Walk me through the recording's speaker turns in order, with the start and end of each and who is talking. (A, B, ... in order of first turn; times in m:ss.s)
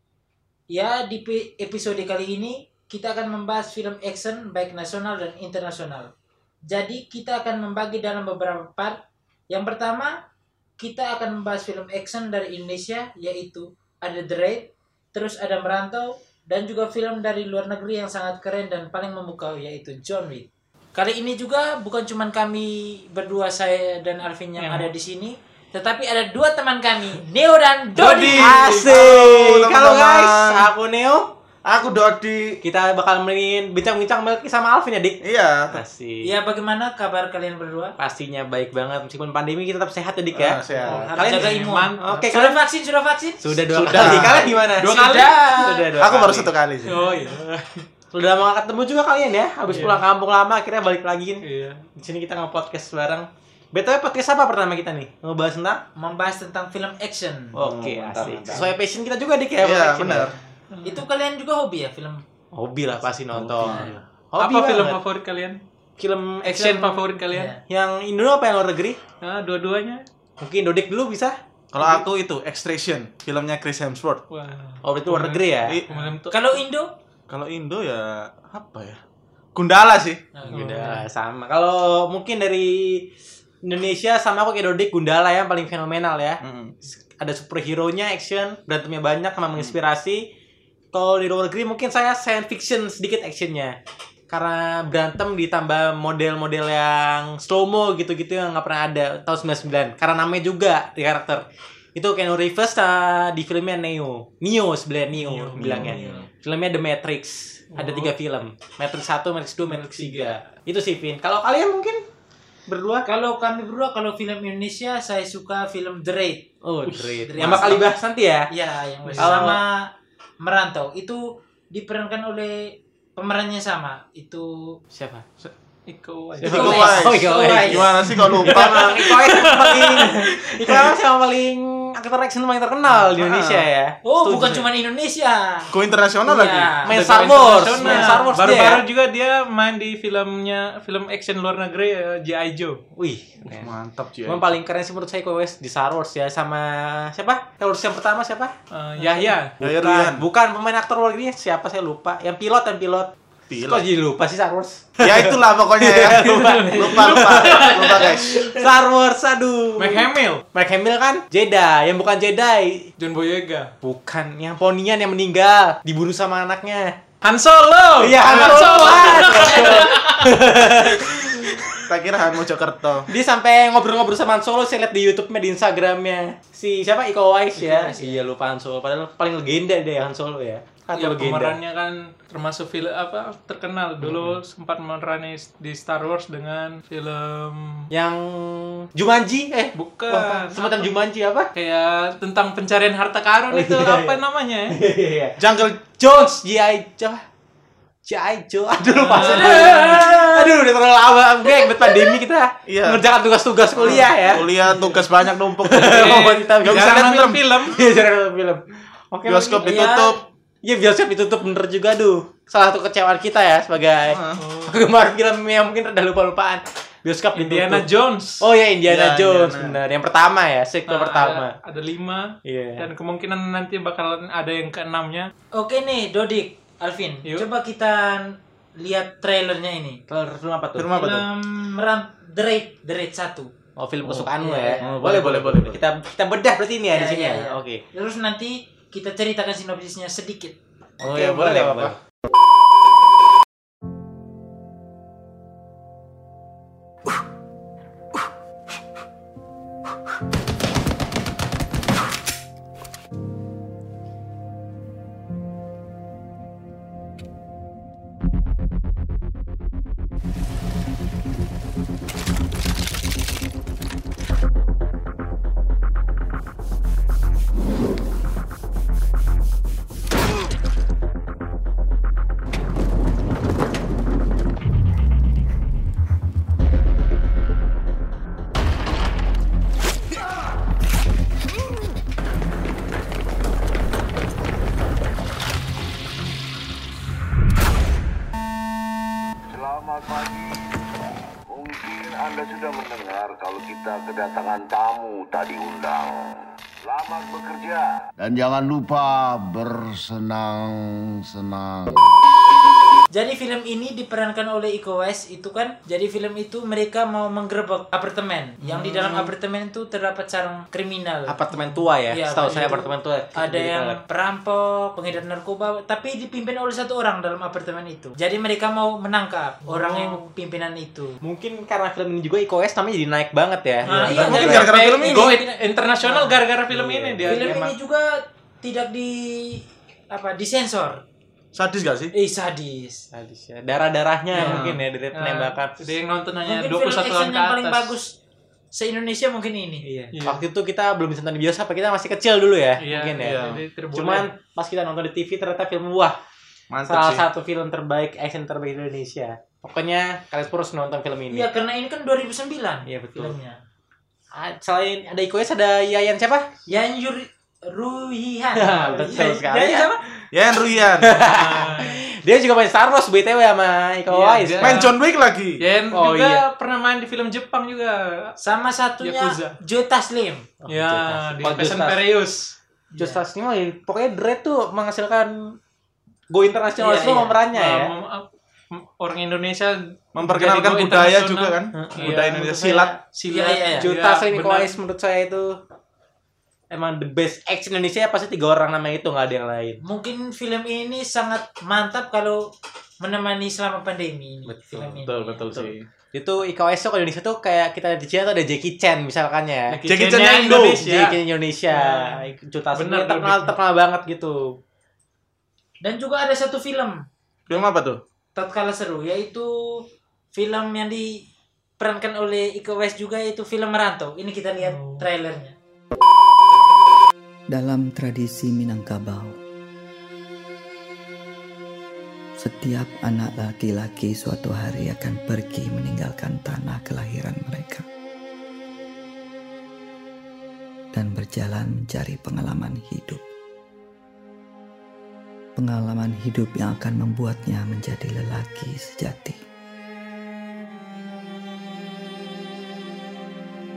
0:00.7-0:06.1 A
0:06.7-0:10.1 A
0:10.8-0:28.7 A
0:24.6-0:24.9 B
0:28.0-0:29.0 B
0:28.1-0:30.7 C
0:28.2-0:31.2 D
0:31.6-0:32.4 C
0:32.6-0:36.3 D
0:35.2-0:35.8 C
0:36.2-0:37.9 A
0:38.0-0:42.6 D
0:40.3-0:41.2 C
0:40.8-0:43.5 A
0:41.1-0:42.2 B
0:43.4-0:46.5 D
0:43.7-0:44.5 C
0:44.1-0:45.9 A
0:44.8-0:45.3 B
0:45.9-0:47.0 C
0:46.8-0:47.8 B
0:48.1-0:51.4 D
0:49.7-0:50.0 B
0:51.4-0:51.8 B
0:52.0-0:55.8 D
0:56.0-0:57.6 A
0:57.5-1:00.3 D
0:57.6-0:58.7 C
0:59.6-1:00.3 C
1:00.2-1:02.2 A
1:00.7-1:01.0 B
1:02.5-1:05.0 D
1:03.3-1:04.0 C
1:03.8-1:05.6 B
1:06.0-1:07.1 D
1:06.4-1:07.5 B
1:07.3-1:07.6 A
1:07.6-1:09.0 D
1:09.2-1:10.0 B
1:10.4-1:11.4 D
1:11.7-1:14.2 C
1:14.3-1:16.6 B
1:14.8-1:15.8 D
1:16.3-1:16.9 A
1:17.3-1:19.0 C
1:19.5-1:20.2 C
1:20.4-1:20.6 A
1:20.5-1:21.0 B
1:20.5-1:23.1 D
1:23.6-1:26.4 D
1:26.4-1:26.8 C
1:27.0-1:30.3 D
1:30.9-1:33.8 D
1:34.3-1:41.4 D
1:42.0-1:52.0 D
1:45.1-1:46.2 B
1:45.6-1:45.9 C
1:45.9-1:46.2 A
1:47.7-1:48.1 B
1:49.6-1:50.4 B
1:52.7-1:53.0 D
1:53.0-1:56.5 A
1:56.6-1:58.5 D
1:56.8-1:57.8 B
1:57.3-1:57.9 A
1:58.5-1:59.8 A
1:59.0-1:59.5 B
1:59.2-1:59.6 D
2:00.4-2:01.2 A
2:01.7-2:04.5 A
2:04.9-2:05.2 D
2:05.9-2:07.0 B
2:06.4-2:14.6 D
2:06.4-2:07.9 A
2:06.5-2:08.7 C
2:08.2-2:10.8 B
2:13.1-2:13.7 C
2:14.0-2:15.7 A
2:15.7-2:16.8 C
2:16.2-2:18.7 A
2:16.8-2:18.8 D
2:16.9-2:22.8 B
2:22.9-2:23.7 D
2:23.5-2:24.6 C
2:24.2-2:42.9 D
2:28.7-2:29.5 B
2:29.6-2:30.2 C
2:33.5-2:33.9 C
2:35.0-2:38.3 C
2:36.1-2:38.6 B
2:39.8-2:40.4 B
2:43.0-2:43.7 B
2:43.8-2:47.0 D
2:47.2-2:50.4 B
2:48.0-2:51.8 D
2:49.1-2:49.6 A
2:51.9-2:53.1 C
2:53.1-3:01.6 D
3:00.9-3:07.9 B
3:04.0-3:04.4 D
3:07.9-3:11.5 D
3:09.7-3:10.9 B
3:11.5-3:14.8 B
3:13.5-3:17.2 D
3:15.4-3:15.8 C
3:18.0-3:24.5 D
3:18.8-3:20.2 B
3:19.1-3:20.4 A
3:22.6-3:23.0 C
3:23.8-3:27.5 C
3:23.8-3:24.9 B
3:25.6-3:26.9 D
3:25.8-3:27.8 B
3:27.6-3:30.0 D
3:29.2-3:30.2 C
3:29.6-3:30.2 A
3:30.6-3:37.9 D
3:34.1-3:34.4 C
3:34.4-3:34.8 B
3:37.3-3:38.5 B
3:38.4-3:41.5 D
3:38.8-3:39.8 C
3:40.9-3:45.3 B
3:42.4-3:42.8 D
3:45.5-3:50.0 A
3:50.1-3:50.9 D
3:50.8-3:51.3 C
3:50.9-3:53.5 A
3:53.8-3:57.8 D
3:54.0-3:54.3 C
3:54.4-3:54.8 A
3:54.8-3:55.8 C
3:56.9-4:00.6 A
4:01.0-4:01.9 C
4:01.0-4:02.0 D
4:49.6-4:50.4 E
4:51.5-4:56.1 F
4:51.6-4:56.0 E
4:56.9-4:57.8 E
4:57.6-5:02.0 F
5:03.1-5:11.4 A
5:08.7-5:09.3 C
5:11.3-5:14.0 D
5:12.1-5:21.2 A
5:19.7-5:20.2 B
5:21.2-5:24.7 D
5:23.8-5:26.4 A
5:23.9-5:27.7 B
5:24.2-5:25.3 C
5:26.7-5:27.6 D
5:27.2-5:31.0 A
5:31.5-5:32.1 C
5:32.1-5:33.0 A
5:33.1-5:35.8 D
5:34.3-5:37.9 B
5:34.4-5:34.8 C
5:36.4-5:38.2 A
5:38.7-5:39.8 A
5:39.8-5:43.4 D
5:40.1-5:40.4 B
5:42.8-5:44.3 B
5:43.2-5:43.6 C
5:43.9-5:46.2 D
5:46.7-5:47.2 C
5:46.8-5:51.4 D
5:51.3-5:53.6 A
5:52.8-5:53.3 D
5:54.3-5:56.5 D
5:56.7-6:00.0 A
5:58.5-5:59.9 D
6:00.3-6:01.1 C
6:01.0-6:04.9 D
6:01.0-6:02.0 B
6:04.1-6:04.9 B
6:04.6-6:05.6 C
6:05.6-6:08.3 B
6:05.8-6:06.4 D
6:08.4-6:10.5 A
6:09.0-6:09.5 B
6:10.6-6:12.0 D
6:10.7-6:12.5 B
6:12.9-6:13.2 A
6:13.0-6:15.6 D
6:16.3-6:17.9 D
6:16.8-6:17.4 A
6:17.5-6:22.4 B
6:20.1-6:22.9 C
6:21.7-6:23.0 D
6:23.1-6:24.8 B
6:23.3-6:23.8 A
6:23.8-6:25.6 D
6:26.7-6:29.8 D
6:29.8-6:32.4 A
6:33.0-6:35.5 A
6:34.4-6:39.8 D
6:35.0-6:35.8 C
6:39.7-6:41.2 B
6:39.8-6:40.8 C
6:40.6-6:44.6 D
6:41.7-6:43.6 B
6:45.8-6:47.0 A
6:47.5-6:48.0 C
6:48.3-6:49.8 A
6:50.3-6:51.2 A
6:51.8-6:55.6 A
6:54.6-6:55.0 B
6:57.5-6:59.4 G
7:02.4-7:07.8 G
7:10.9-7:13.2 G
7:15.6-7:19.4 G